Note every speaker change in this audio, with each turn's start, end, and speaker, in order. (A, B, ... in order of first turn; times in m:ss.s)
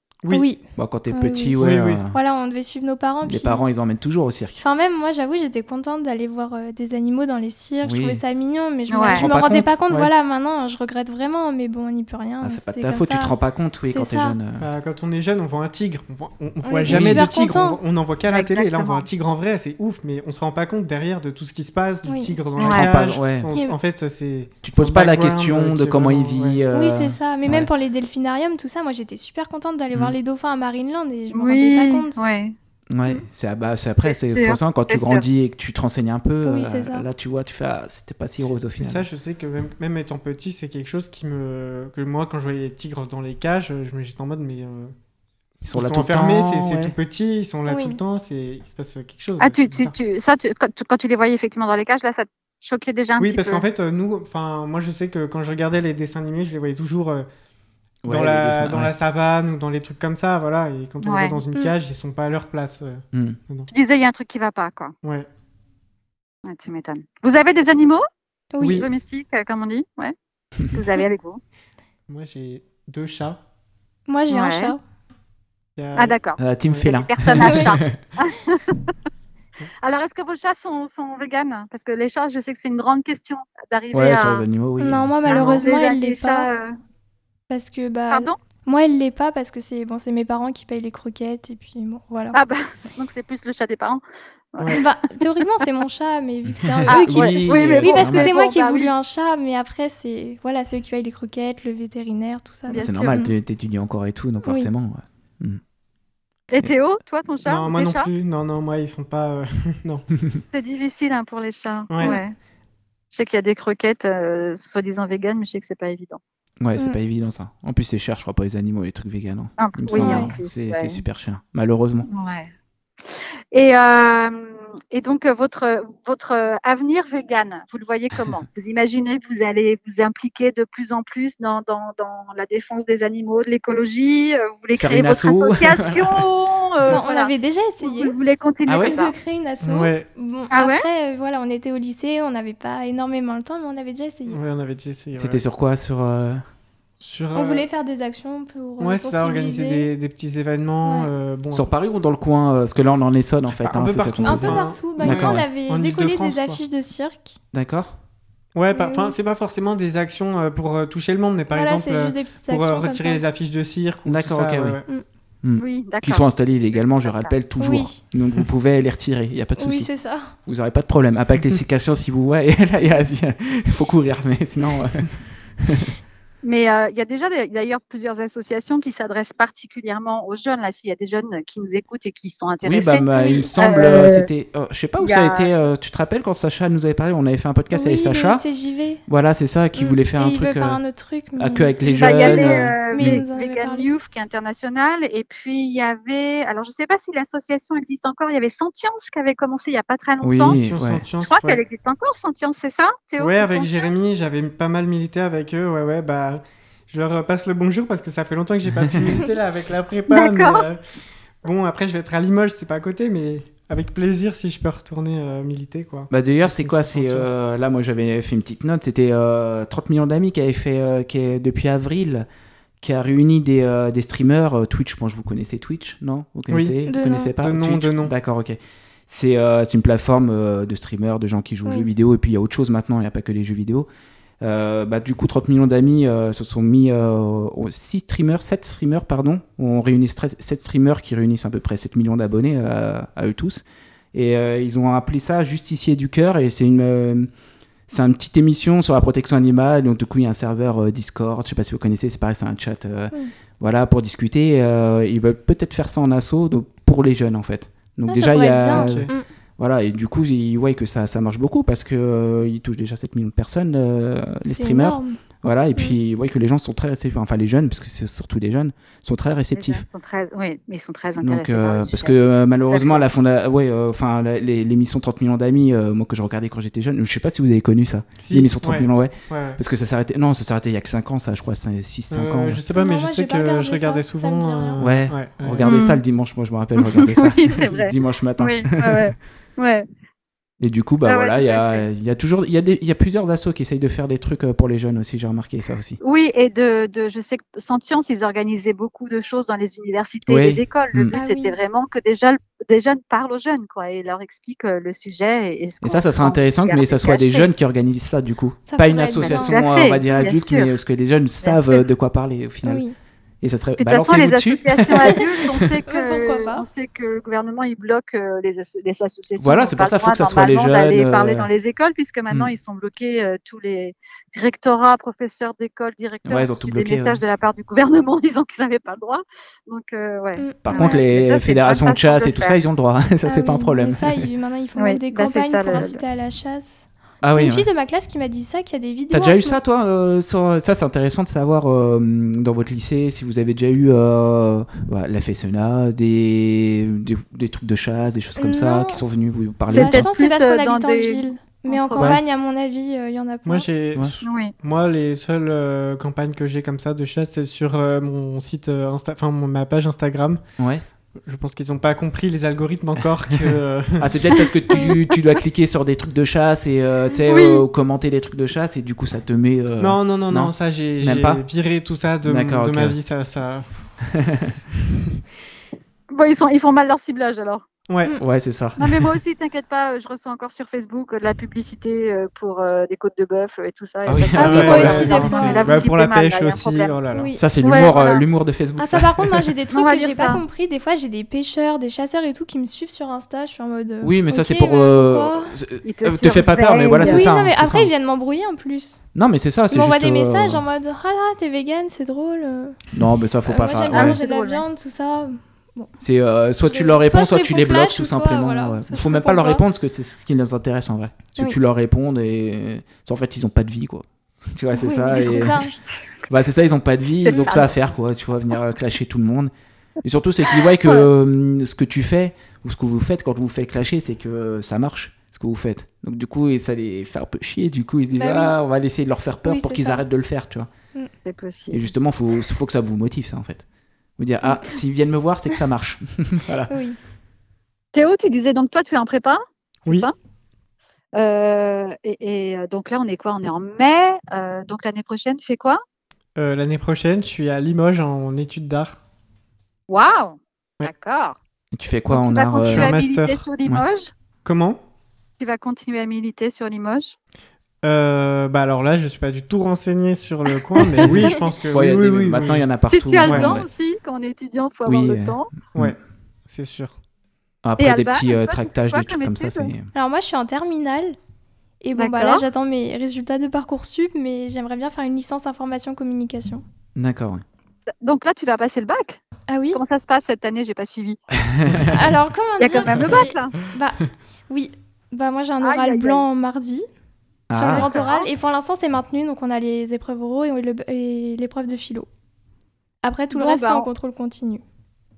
0:00.3-0:03.6 A
0:00.8-0:02.2 B
0:01.6-0:02.0 C
0:03.2-0:04.6 B
0:04.6-0:13.4 A
0:07.8-0:08.2 B
0:08.9-0:09.3 D
0:09.0-0:10.1 B
0:12.4-0:14.7 B
0:13.9-0:14.4 A
0:14.6-0:26.6 C
0:16.6-0:17.8 A
0:16.9-0:17.3 B
0:18.3-0:19.1 D
0:22.1-0:22.3 A
0:22.6-0:22.9 D
0:22.6-0:23.5 B
0:24.6-0:27.7 B
0:26.7-0:32.2 A
0:31.3-0:32.6 D
0:32.9-0:39.1 B
0:34.1-0:35.2 D
0:36.4-0:37.1 A
0:38.8-0:44.9 C
0:45.6-0:46.9 B
0:45.7-0:50.0 C
0:47.7-0:48.0 A
0:49.4-0:53.6 D
0:53.2-0:57.3 C
0:58.0-0:58.9 B
0:58.1-1:03.7 C
1:01.0-1:01.4 D
1:03.1-1:03.4 B
1:03.7-1:04.9 D
1:06.4-1:08.0 D
1:08.5-1:08.9 A
1:08.6-1:08.9 C
1:08.6-1:11.4 D
1:12.1-1:13.4 C
1:14.1-1:14.8 A
1:14.3-1:14.7 D
1:15.8-1:16.2 C
1:16.0-1:18.9 D
1:16.4-1:18.0 B
1:17.4-1:17.7 A
1:19.8-1:24.4 D
1:23.9-1:25.1 B
1:24.8-1:26.5 A
1:25.3-1:25.7 C
1:25.3-1:26.8 D
1:27.5-1:32.4 A
1:28.1-1:28.4 D
1:32.3-1:34.9 D
1:34.7-1:43.3 A
1:36.5-1:38.3 B
1:36.9-1:38.9 D
1:42.7-1:43.3 D
1:42.8-1:45.6 B
1:44.4-1:44.7 A
1:46.5-1:48.1 D
1:47.5-1:50.1 C
1:50.5-1:52.4 D
1:51.9-1:52.2 C
1:53.1-1:56.2 D
1:56.6-2:02.1 B
1:59.6-2:01.0 D
1:59.9-2:00.4 A
2:02.1-2:02.5 D
2:03.0-2:19.2 D
2:14.8-2:16.3 B
2:16.9-2:18.2 A
2:18.7-2:19.0 B
2:18.8-2:24.4 A
2:19.6-2:20.1 C
2:20.5-2:20.9 D
2:24.3-2:25.4 C
2:25.2-2:26.4 B
2:27.0-2:27.7 C
2:27.4-2:29.9 A
2:28.8-2:31.7 C
2:31.5-2:35.4 B
2:33.6-2:36.6 C
2:34.2-2:37.4 A
2:37.5-2:37.9 B
2:38.6-2:44.9 C
2:38.7-2:39.1 A
2:41.5-2:43.2 A
2:44.1-2:44.8 B
2:45.4-2:49.9 B
2:45.6-2:46.2 D
2:46.8-2:47.3 D
2:47.6-2:48.0 A
2:49.6-2:50.3 A
2:50.4-2:55.9 B
2:56.4-3:04.3 D
3:02.6-3:08.4 B
3:03.1-3:04.1 A
3:05.0-3:05.5 D
3:07.7-3:09.0 A
3:09.1-3:10.8 B
3:09.8-3:13.9 A
3:11.4-3:13.2 B
3:12.0-3:20.6 D
3:20.2-3:21.0 B
3:20.4-3:21.6 C
3:21.3-3:23.8 D
3:23.2-3:30.8 C
3:28.8-3:29.2 B
3:30.1-3:30.7 D
3:31.4-3:37.3 C
3:36.1-3:42.3 B
3:42.8-3:48.6 B
3:46.5-3:46.8 C
3:46.9-3:47.3 A
3:47.4-3:48.1 C
3:49.1-3:53.9 B
3:54.4-4:07.3 B
4:07.9-4:29.8 B
4:18.1-4:19.3 A
4:18.7-4:19.1 C
4:24.5-4:25.2 A
4:29.5-4:32.1 D
4:31.2-4:42.6 B
4:32.7-4:33.1 D
4:38.2-4:39.6 C
4:42.1-4:45.7 C
4:42.8-4:44.8 A
4:44.8-4:49.1 B
4:45.6-4:46.0 D
4:47.0-4:49.9 D
4:50.6-4:56.0 B
4:51.0-4:51.8 D
4:56.0-5:07.5 D
5:00.3-5:01.1 B
5:01.1-5:01.6 A
5:05.8-5:12.8 B
5:08.7-5:09.7 A
5:09.2-5:10.7 D
5:11.4-5:11.9 D
5:12.6-5:13.0 A
5:13.4-5:15.7 B
5:13.8-5:32.6 D
5:15.9-5:16.7 A
5:19.4-5:21.5 B
5:26.3-5:27.2 B
5:30.4-5:31.0 A
5:30.6-5:34.3 B
5:33.2-5:39.6 A
5:34.8-5:36.0 D
5:37.2-5:37.7 B
5:39.1-5:50.1 B
5:48.4-5:49.0 A
5:49.7-5:52.2 D
5:49.7-5:53.7 A
5:53.5-6:00.4 C
5:54.2-5:54.5 D
6:00.6-6:00.8 B
6:01.2-6:04.1 C
6:04.0-6:11.4 B
6:04.7-6:05.0 D
6:07.2-6:07.6 D
6:09.8-6:13.9 C
6:12.2-6:13.0 B
6:14.0-6:14.6 B
6:14.8-6:15.2 C
6:16.1-6:17.7 D
6:17.9-6:18.2 C
6:18.2-6:19.1 B
6:18.8-6:26.9 D
6:24.1-6:25.3 B
6:24.4-6:25.8 A
6:24.4-6:27.3 C
6:27.1-6:27.4 A
6:27.4-6:29.5 B
6:27.6-6:28.2 D
6:28.8-6:35.6 A
6:29.7-6:30.4 D
6:34.0-6:37.9 B
6:35.8-6:37.3 D
6:37.0-6:39.0 A
6:39.1-6:40.6 B
6:39.7-6:42.8 A
6:42.9-6:44.2 B
6:43.4-6:46.0 A
6:43.9-6:44.6 D
6:46.0-6:55.6 B
6:46.6-6:49.6 A
6:54.7-6:55.7 A
6:55.1-6:56.0 D
6:56.3-6:59.5 B
6:57.2-6:57.8 D
7:00.0-7:10.7 B
7:00.6-7:01.1 D
7:08.2-7:08.6 A
7:09.4-7:10.0 A
7:11.2-7:11.9 D
7:11.7-7:13.6 B
7:14.2-7:16.7 B
7:14.4-7:14.7 A
7:16.7-7:17.0 A
7:17.9-7:20.1 D
7:21.2-7:25.8 D
7:26.4-7:29.0 C
7:29.9-7:31.4 D
7:31.7-7:33.0 B
7:32.1-7:34.1 D
7:32.6-7:33.5 C
7:34.4-7:34.8 C
7:35.4-7:37.2 D
7:37.8-7:42.6 C
7:41.0-7:43.7 B
7:42.9-7:45.5 D
7:43.2-7:43.6 C
7:44.8-7:46.0 B
7:45.8-7:47.0 C
7:47.6-7:49.9 B
7:47.8-7:49.7 D
7:49.9-7:51.2 A
7:51.8-7:56.6 A
7:52.0-7:52.4 D
7:57.0-7:57.4 B
7:58.0-7:59.2 D
7:59.5-7:59.8 A
7:59.7-8:01.2 D
8:01.4-8:02.1 B
8:01.8-8:06.9 A
8:02.6-8:03.6 D
8:02.9-8:03.3 B
8:05.6-8:06.2 D
8:07.5-8:07.9 B
8:07.5-8:12.1 A
8:07.7-8:08.3 D
8:13.0-8:14.6 A
8:13.3-8:13.9 D